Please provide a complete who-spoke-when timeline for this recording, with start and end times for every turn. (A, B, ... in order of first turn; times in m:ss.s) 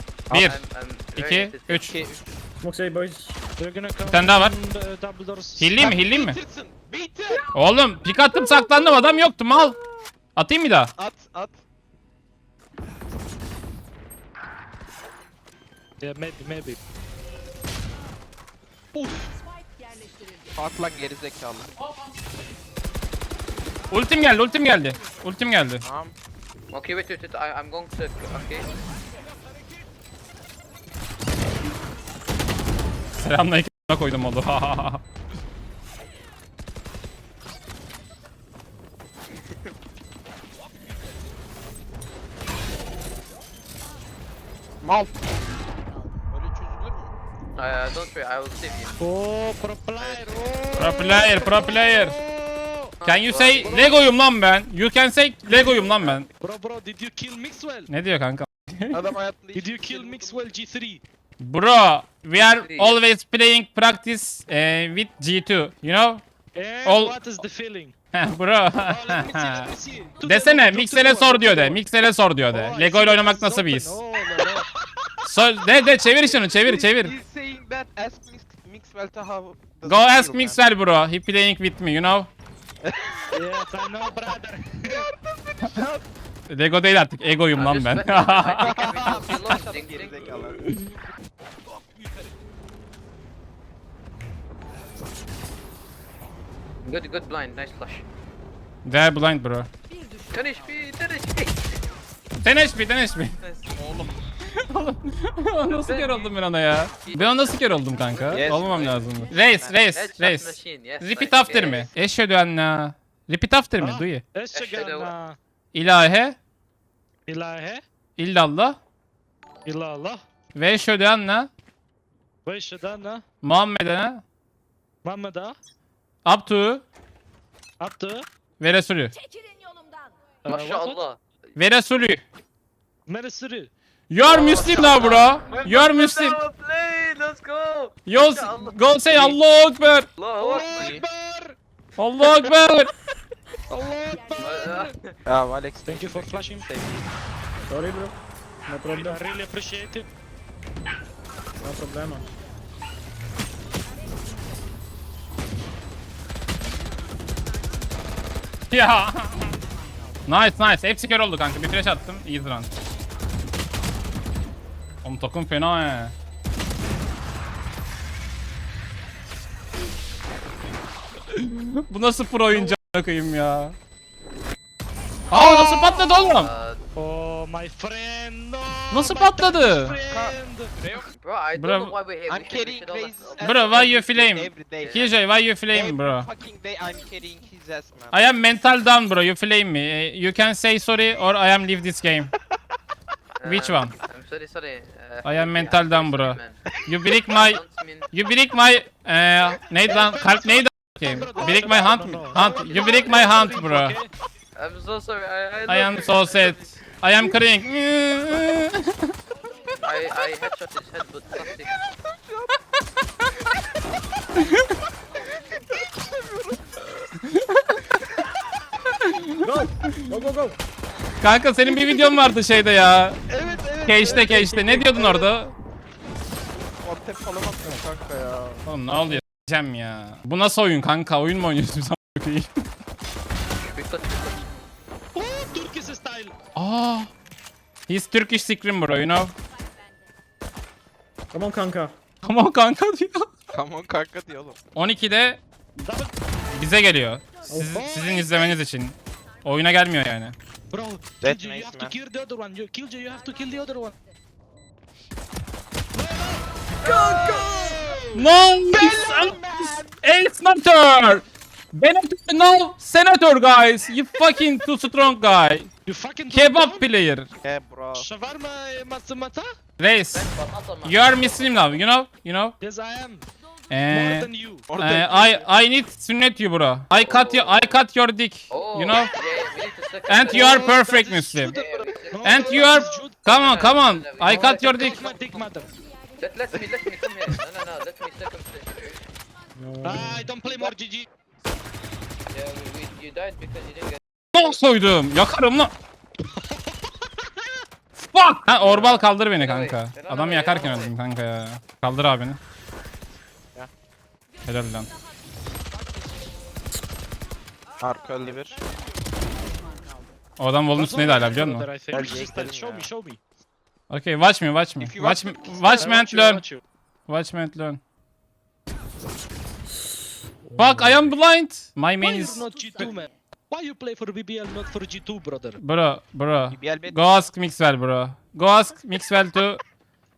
0:00.3-0:00.6 A
0:00.3-0:00.6 B
0:00.3-0:02.0 C
0:01.2-0:02.0 B
0:01.8-0:02.4 A
0:02.6-0:03.4 D
0:03.6-0:05.9 E
0:04.1-0:04.6 B
0:05.6-0:06.4 B
0:05.8-0:07.4 A
0:07.5-0:09.8 B
0:10.4-0:10.9 B
0:11.0-0:11.6 A
0:16.0-0:16.8 E
0:18.9-0:19.4 A
0:20.5-0:21.7 A
0:23.9-0:25.8 B
0:25.8-0:26.2 A
0:26.7-0:28.7 C
0:33.2-0:35.0 B
0:44.8-0:45.2 A
0:45.9-0:47.1 A
0:47.6-0:49.0 C
0:49.0-0:53.0 E
0:50.0-0:50.3 C
0:50.8-0:52.2 B
0:53.0-0:53.9 C
0:53.0-0:56.3 B
0:53.3-0:53.7 A
0:53.6-0:54.0 E
0:56.4-0:57.9 E
0:57.9-0:59.0 B
0:58.9-1:00.4 A
0:59.5-1:01.0 E
1:01.4-1:06.2 B
1:02.4-1:03.0 C
1:06.5-1:07.9 E
1:06.8-1:07.2 B
1:08.1-1:09.7 B
1:08.8-1:11.8 E
1:10.2-1:14.0 B
1:12.5-1:14.7 E
1:14.3-1:15.1 A
1:15.2-1:17.1 B
1:16.2-1:20.6 A
1:19.9-1:22.3 B
1:22.8-1:23.3 A
1:23.3-1:25.0 E
1:24.9-1:26.0 A
1:26.5-1:28.7 B
1:27.5-1:30.2 C
1:28.6-1:30.6 A
1:36.8-1:38.0 C
1:38.8-1:39.7 B
1:40.3-1:41.8 C
1:42.4-1:43.4 B
1:43.4-1:43.8 C
1:43.8-1:44.2 A
1:44.7-1:54.2 B
1:45.7-1:46.4 C
1:47.0-1:49.0 C
1:48.3-1:49.7 A
1:49.7-1:51.9 C
1:51.6-1:51.9 A
1:53.8-1:55.4 E
1:54.5-1:55.1 C
1:55.7-1:56.4 B
1:57.3-1:57.8 E
1:58.2-1:58.8 B
1:59.6-2:00.2 E
2:00.5-2:01.5 B
2:02.5-2:03.2 E
2:03.4-2:04.2 B
2:05.0-2:05.6 E
2:06.2-2:06.8 B
2:07.8-2:08.3 E
2:08.6-2:09.1 B
2:10.4-2:11.2 C
2:10.4-2:11.0 E
2:11.6-2:12.2 B
2:13.1-2:13.7 E
2:14.1-2:16.4 B
2:14.2-2:19.4 C
2:18.1-2:20.1 B
2:20.2-2:21.0 C
2:20.4-2:21.0 A
2:20.4-2:21.6 E
2:22.0-2:22.9 B
2:23.7-2:24.9 E
2:24.4-2:25.1 C
2:25.3-2:27.1 A
2:25.9-2:26.7 E
2:27.7-2:28.2 D
2:28.7-2:29.2 D
2:29.0-2:30.1 E
2:31.6-2:32.3 D
2:38.7-2:39.5 B
2:40.3-2:42.7 B
2:45.0-2:46.1 B
2:51.3-2:53.8 B
2:55.3-2:56.5 B
2:55.3-2:56.8 C
2:57.0-3:00.7 E
2:58.9-3:00.0 B
3:00.1-3:01.1 A
3:01.2-3:03.9 C
3:01.6-3:01.9 B
3:02.3-3:05.1 A
3:03.4-3:06.3 B
3:04.8-3:05.1 C
3:05.7-3:08.2 A
3:08.1-3:12.3 B
3:13.4-3:16.6 C
3:13.4-3:13.9 B
3:15.2-3:17.6 B
3:17.3-3:18.1 C
3:18.1-3:24.0 B
3:19.9-3:24.1 E
3:21.4-3:23.2 A
3:24.6-3:26.7 C
3:25.7-3:29.1 B
3:29.8-3:31.8 C
3:32.0-3:32.4 A
3:35.9-3:36.4 A
3:37.4-3:37.7 B
3:39.4-3:40.6 D
3:41.2-3:43.2 B
3:41.7-3:42.2 A
3:43.3-3:45.3 A
3:43.8-3:45.5 B
3:46.6-3:48.6 A
3:48.7-3:52.5 B
3:53.6-3:54.5 C
3:55.2-3:56.4 E
3:56.6-3:57.1 B
3:57.9-3:59.3 B
4:01.3-4:02.0 D
4:02.2-4:03.3 B
4:03.5-4:04.6 A
4:04.8-4:05.4 B
4:05.8-4:06.1 E
4:06.5-4:10.4 B
4:07.5-4:07.8 D
4:07.7-4:08.4 E
4:10.7-4:14.0 E
4:11.2-4:12.0 A
4:16.0-4:16.6 E
4:16.8-4:17.8 D
4:16.8-4:19.9 A
4:18.2-4:25.7 B
4:25.8-4:26.8 E
4:26.3-4:27.3 B
4:27.4-4:28.1 A
4:27.9-4:29.5 E
4:29.8-4:30.3 B
4:30.1-4:31.8 C
4:30.8-4:32.6 B
4:32.6-4:33.3 E
4:33.7-4:39.1 B
4:33.9-4:34.7 E
4:34.7-4:35.5 A
4:36.9-4:37.8 C
4:38.5-4:40.8 C
4:40.1-4:41.6 B
4:40.3-4:43.3 E
4:41.4-4:45.5 C
4:42.2-4:45.0 B
4:44.2-4:45.7 E
4:46.2-4:49.1 C
4:49.6-4:50.3 D
4:49.8-4:51.1 E
4:50.4-4:50.7 C
4:52.3-4:54.5 C
4:54.3-4:55.7 B
4:58.0-5:02.4 B
4:58.6-4:59.0 A
4:59.3-5:01.0 C
5:04.4-5:04.9 B
5:07.8-5:08.6 A
5:10.4-5:11.7 B
5:10.7-5:13.2 E
5:11.9-5:12.9 A
5:13.9-5:16.4 B
5:14.8-5:16.0 A
5:15.6-5:16.6 E
5:17.1-5:17.8 B
5:20.5-5:21.2 D
5:20.6-5:22.4 B
5:22.0-5:25.6 E
5:25.6-5:29.6 B
5:26.5-5:27.3 A